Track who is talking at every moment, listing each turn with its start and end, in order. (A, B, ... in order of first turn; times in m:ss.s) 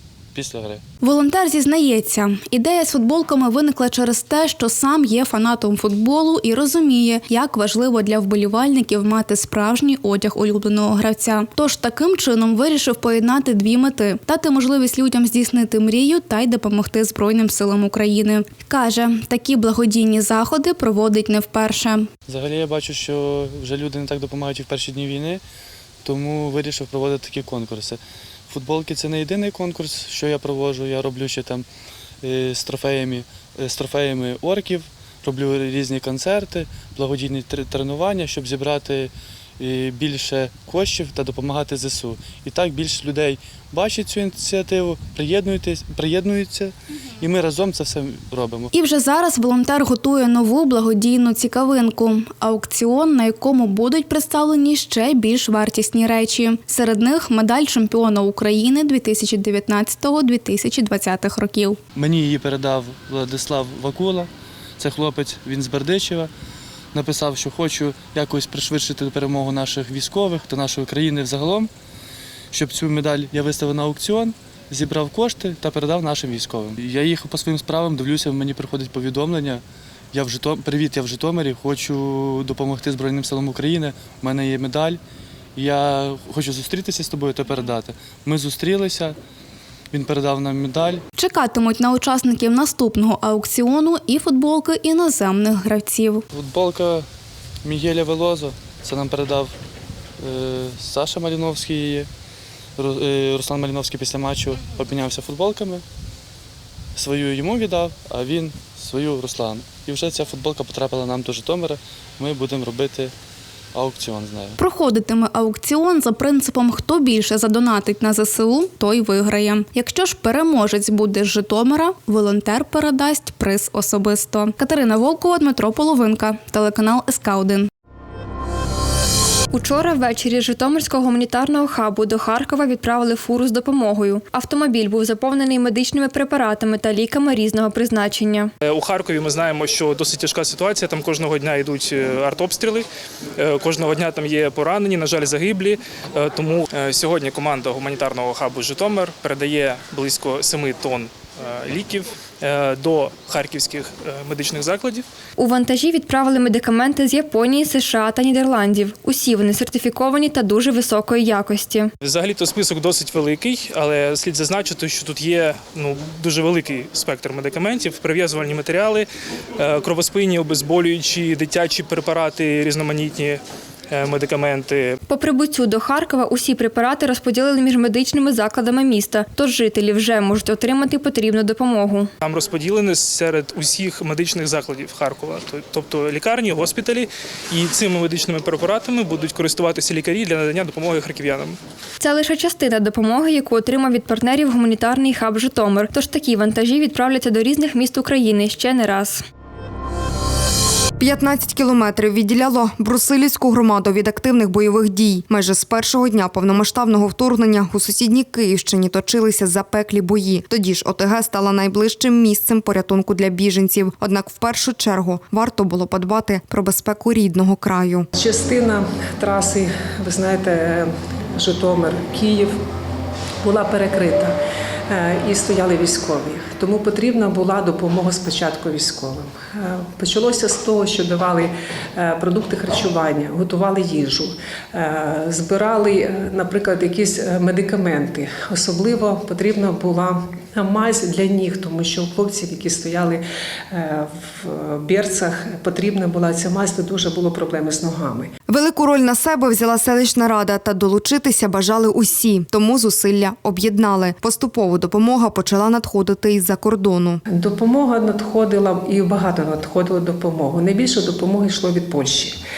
0:00.3-0:00.8 A
0:01.0-0:22.1 B
0:22.3-0:25.4 A
0:26.0-0:31.6 A
0:32.2-0:48.7 A
0:48.7-1:01.8 B
1:01.9-1:06.3 A
1:06.9-1:11.7 A
1:12.5-1:25.0 A
1:25.6-1:29.2 A
1:29.9-1:31.0 A
1:31.1-1:36.2 B
1:36.3-1:37.0 A
1:37.6-1:39.5 A
1:40.2-1:42.1 A
1:42.8-1:45.8 A
1:47.0-1:53.1 A
1:53.7-1:54.6 A
1:54.6-2:07.7 B
2:09.5-2:18.5 C
2:18.6-2:35.0 D
2:35.4-2:41.9 C
2:42.0-2:49.1 D
2:49.6-2:55.0 D
2:55.1-3:02.1 C
3:02.2-3:11.6 D
3:12.0-3:19.2 C
3:21.0-3:38.1 E
3:38.2-3:42.6 F
3:43.4-3:44.4 F
3:44.9-4:08.3 F
4:08.5-4:17.2 E
4:17.3-4:22.4 F